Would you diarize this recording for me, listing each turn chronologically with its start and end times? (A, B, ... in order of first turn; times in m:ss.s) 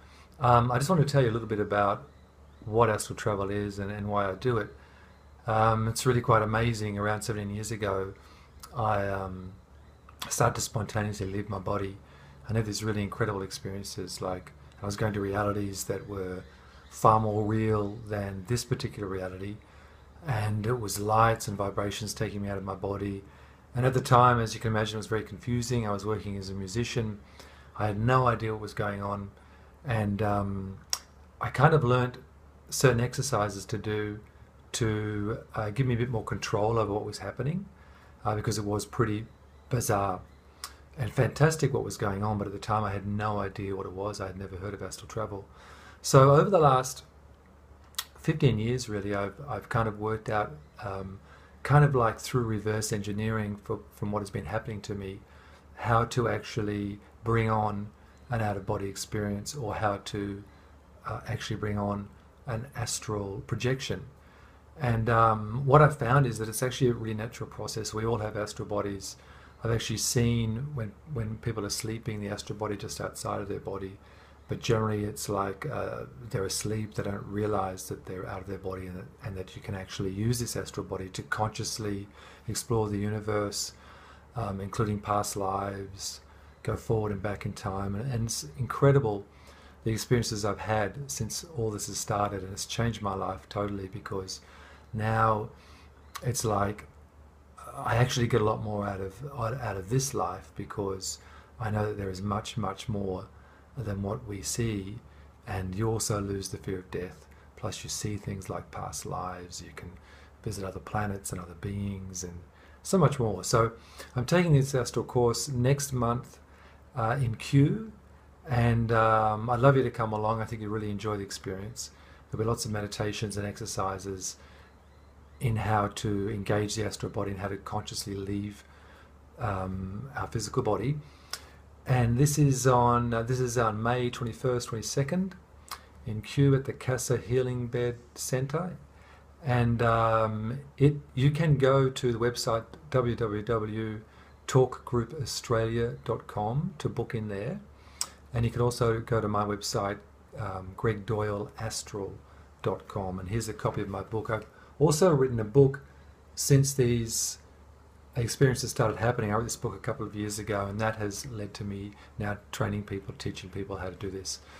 0:00.4-0:02.0 A
0:02.6-0:04.8 A
0:05.4-0:08.1 A
0:08.7-0:09.6 A
0:10.2-0:19.6 A
0:20.2-0:27.2 A
0:27.8-0:29.3 A
0:29.8-0:30.8 A
0:31.4-0:37.7 A
0:38.2-0:40.2 A
0:41.0-0:45.5 A
0:46.0-0:47.0 A
0:48.2-0:55.2 A
0:55.8-1:00.4 A
1:01.0-1:04.1 A
1:04.8-1:23.7 A
1:24.3-1:29.3 A
1:29.8-1:34.4 A
1:34.9-1:35.5 A
1:36.2-1:36.9 A
1:37.6-1:56.4 A
1:56.9-1:57.9 A
1:58.4-2:04.4 A
2:05.4-2:08.6 A
2:09.4-2:11.0 A
2:11.8-2:15.4 A
2:16.0-2:18.8 A
2:19.4-2:27.6 A
2:28.3-2:35.8 A
2:36.3-2:37.4 A
2:38.1-2:44.4 A